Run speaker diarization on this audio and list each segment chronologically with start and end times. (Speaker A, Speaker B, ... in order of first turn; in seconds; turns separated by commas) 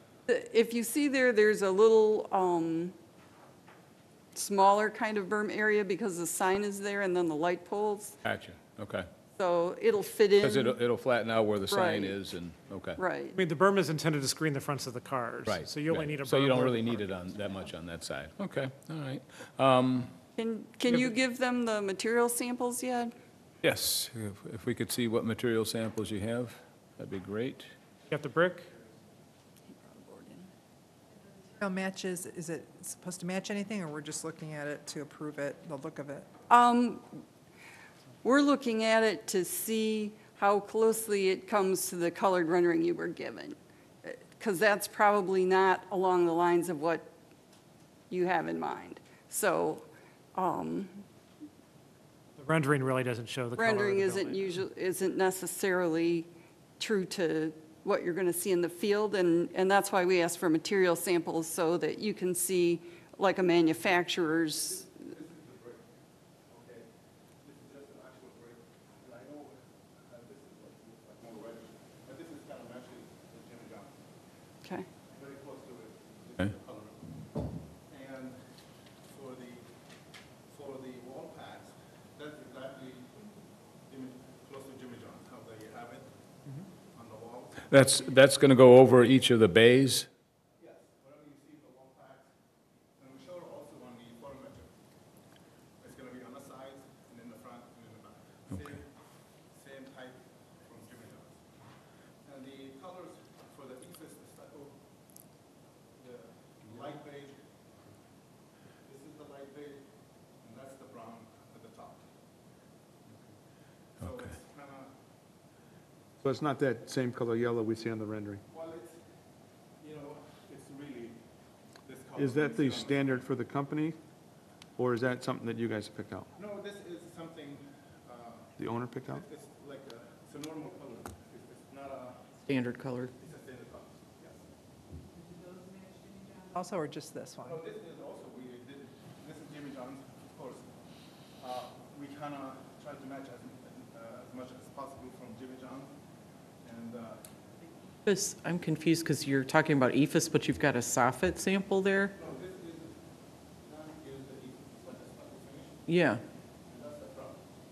Speaker A: 0.3-2.9, Speaker A: 4.3-8.2, Speaker B: 8.2-9.1, Speaker A: 9.4-10.8, Speaker B: 10.4-13.0, Speaker A: 11.7-12.2, Speaker A: 13.0-13.4, Speaker C: 13.3-17.0, Speaker B: 15.4-20.1, Speaker A: 20.4-23.1, Speaker C: 20.9-21.1, Speaker B: 23.6-27.7, Speaker C: 28.1-28.7, Speaker A: 29.7-30.5, Speaker D: 31.6-36.3, Speaker A: 36.5-37.2, Speaker A: 38.2-47.1, Speaker A: 48.1-51.0, Speaker C: 52.4-54.6, Speaker A: 53.5-64.9, Speaker E: 64.5-65.8, Speaker E: 66.5-66.9, Speaker E: 67.4-74.0, Speaker E: 75.0-77.0, Speaker E: 77.9-78.4, Speaker E: 79.1-79.7, Speaker E: 80.5-83.1, Speaker E: 83.9-86.1, Speaker E: 86.9-87.7, Speaker B: 87.7-90.1, Speaker E: 90.6-92.3, Speaker E: 93.0-94.7, Speaker E: 95.8-98.8, Speaker E: 99.5-101.4, Speaker E: 102.2-104.7, Speaker E: 106.0-107.4, Speaker E: 108.8-109.8, Speaker E: 110.4-112.0, Speaker E: 114.0-114.9, Speaker F: 116.2-118.4, Speaker E: 118.5-119.0, Speaker E: 119.8-121.2, Speaker E: 121.8-123.2, Speaker F: 122.2-124.0, Speaker F: 124.8-126.3, Speaker E: 126.3-128.5, Speaker F: 128.6-129.2, Speaker E: 129.0-132.5, Speaker G: 132.5-133.1, Speaker E: 133.1-134.4, Speaker D: 136.5-137.6, Speaker E: 137.4-140.7, Speaker E: 141.4-145.9, Speaker E: 146.6-147.2, Speaker G: 148.1-152.1, Speaker E: 152.1-153.0, Speaker E: 153.6-155.8, Speaker G: 155.9-156.2, Speaker E: 156.7-157.4